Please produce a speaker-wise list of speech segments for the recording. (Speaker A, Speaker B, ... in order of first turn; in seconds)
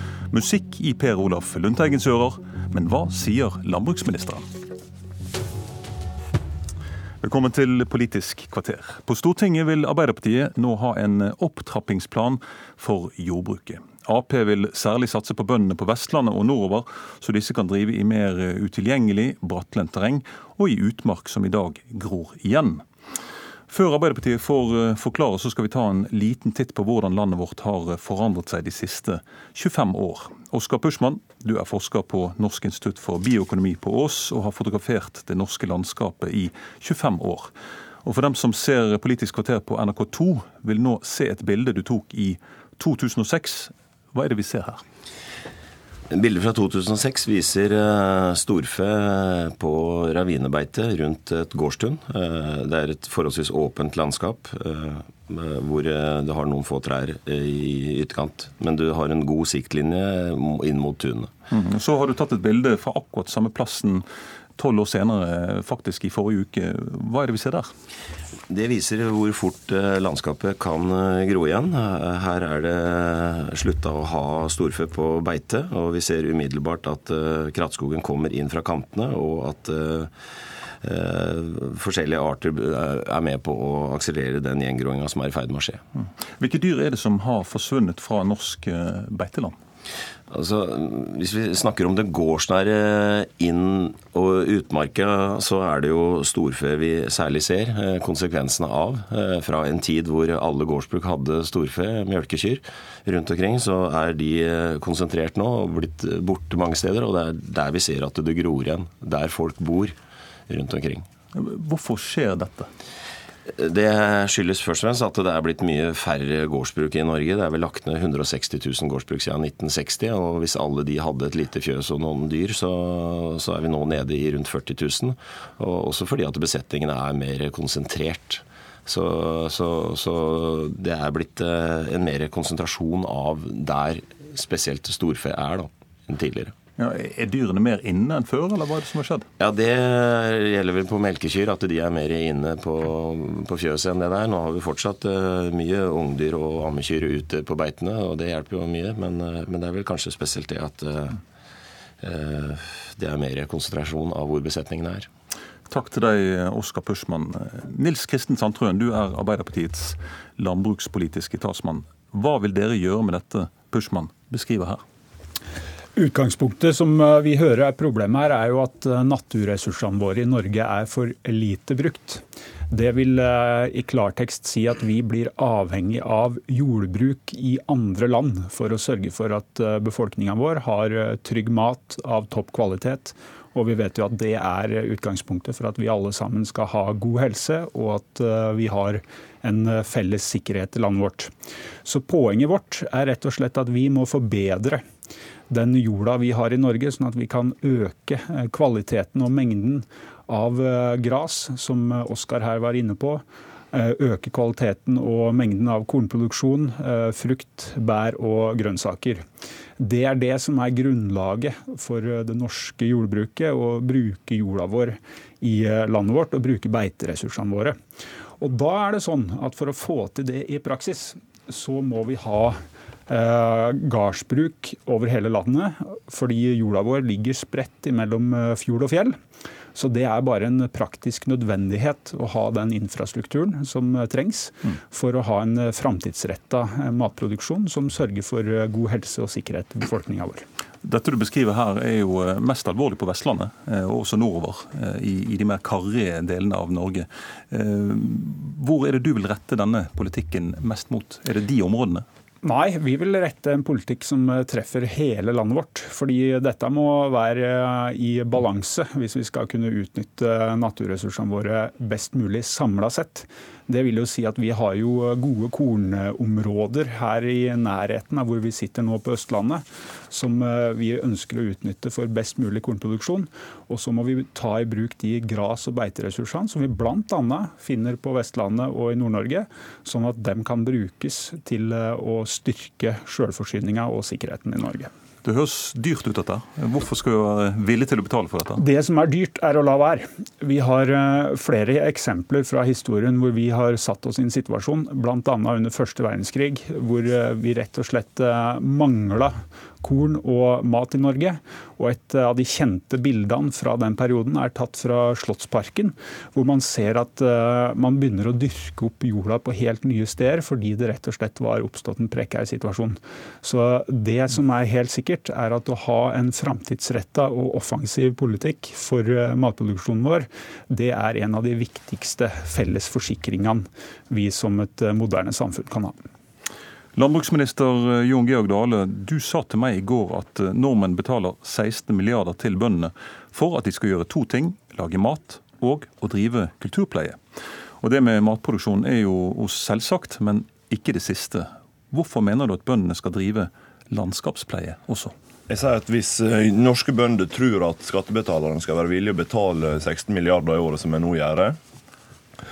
Speaker A: 0.3-4.5, 7.2-22.8, 23.7-37.5, 38.0-44.8, 61.5-64.0, 64.6-67.7, 86.3-89.5, 111.3-112.7, 136.8-139.3, 155.7-164.8, 240.8-252.0, 285.2-288.6, 326.9-337.2, 337.8-345.1
Speaker B: 46.2-61.2, 68.5-80.0, 80.9-85.8, 90.3-109.9, 110.5-111.0, 113.6-136.5, 139.4-151.1, 152.1-155.0
Speaker C: 165.9-191.3, 191.8-194.8, 195.5-209.2, 209.8-217.7, 218.4-222.6, 223.1-229.1, 229.7-240.4, 252.4-284.9, 288.6-325.9
Speaker D: 345.5-351.6